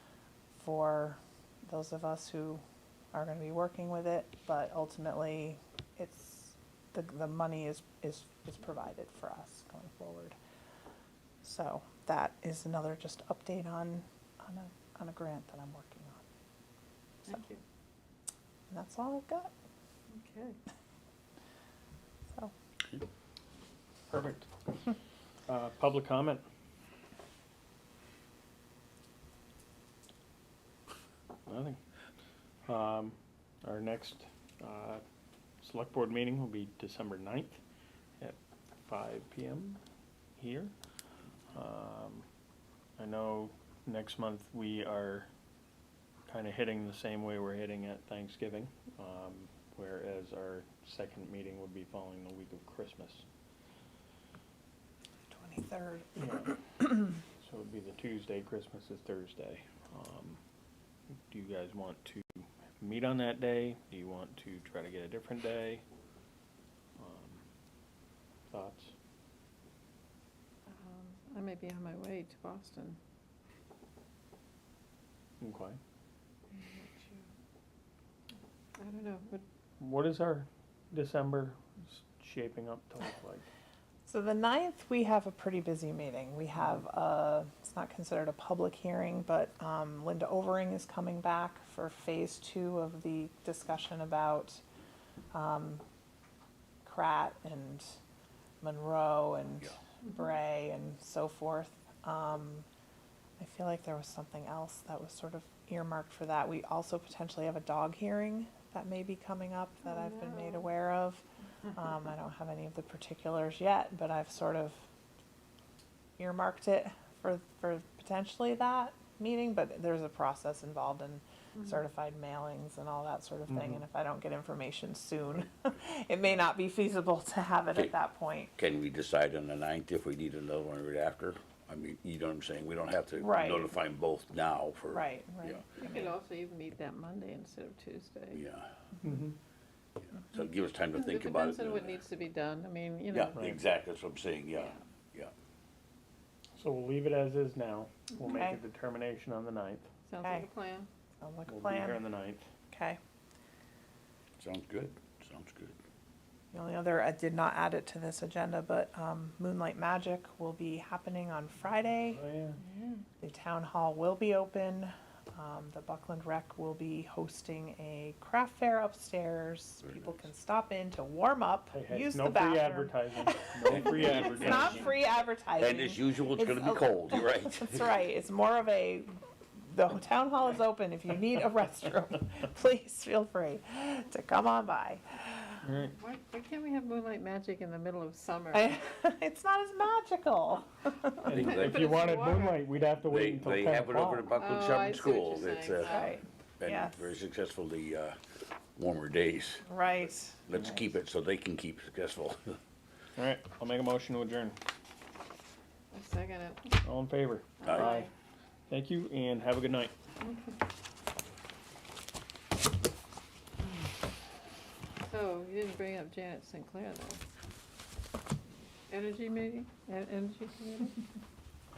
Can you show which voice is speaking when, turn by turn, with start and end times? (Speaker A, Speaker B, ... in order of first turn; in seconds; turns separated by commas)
Speaker A: 0.5-10.4, Speaker A: 11.4-16.2, Speaker B: 17.2-17.6, Speaker A: 18.7-19.5, Speaker B: 20.1-20.6, Speaker C: 24.1-24.7, Speaker C: 25.5-26.4, Speaker C: 31.5-31.8, Speaker C: 32.6-35.0, Speaker C: 35.6-37.6, Speaker C: 38.2-39.8, Speaker C: 40.4-40.7, Speaker C: 41.5-42.2, Speaker C: 43.0-45.3, Speaker C: 46.3-53.2, Speaker A: 55.3-56.8, Speaker C: 56.2-56.5, Speaker C: 57.4-60.4, Speaker C: 61.3-65.8, Speaker C: 67.0-67.4, Speaker C: 68.5-68.9, Speaker B: 70.7-73.0, Speaker C: 75.4-75.8, Speaker B: 76.5-77.2, Speaker B: 78.8-79.4, Speaker C: 79.8-83.4, Speaker A: 84.0-94.6, Speaker A: 95.3-95.8, Speaker A: 96.8-98.0, Speaker A: 98.6-102.7, Speaker A: 103.4-114.9, Speaker B: 109.8-110.7, Speaker A: 116.2-128.5, Speaker C: 123.5-123.8, Speaker D: 128.6-135.6, Speaker A: 133.2-133.7, Speaker A: 134.9-136.1, Speaker B: 135.8-138.4, Speaker D: 138.3-138.7, Speaker C: 139.0-139.3, Speaker D: 140.1-142.0, Speaker B: 140.9-143.4, Speaker D: 143.1-145.3, Speaker C: 143.3-143.6, Speaker C: 146.6-149.9, Speaker A: 148.2-148.6, Speaker B: 150.1-150.9, Speaker A: 150.2-150.5, Speaker A: 151.2-152.0, Speaker C: 151.5-152.5, Speaker A: 152.7-153.0, Speaker D: 154.4-155.8, Speaker A: 156.5-162.3, Speaker C: 162.2-162.6, Speaker B: 162.6-163.0, Speaker A: 163.2-185.7, Speaker C: 171.7-174.9, Speaker D: 173.9-174.8, Speaker D: 175.6-177.9, Speaker C: 185.6-185.9, Speaker B: 185.9-188.8, Speaker A: 188.5-191.3, Speaker D: 191.2-192.0, Speaker C: 191.2-194.3, Speaker B: 191.3-192.6, Speaker D: 193.0-195.9, Speaker B: 194.3-196.2, Speaker A: 195.8-197.1, Speaker D: 196.6-198.2, Speaker D: 198.7-199.7, Speaker A: 199.6-200.4, Speaker D: 200.5-202.6, Speaker C: 203.2-204.6, Speaker B: 205.9-206.8, Speaker C: 206.8-208.1, Speaker B: 207.6-208.1, Speaker D: 207.6-208.0, Speaker C: 208.7-209.9, Speaker B: 210.2-210.6, Speaker B: 215.0-217.2, Speaker B: 218.9-221.0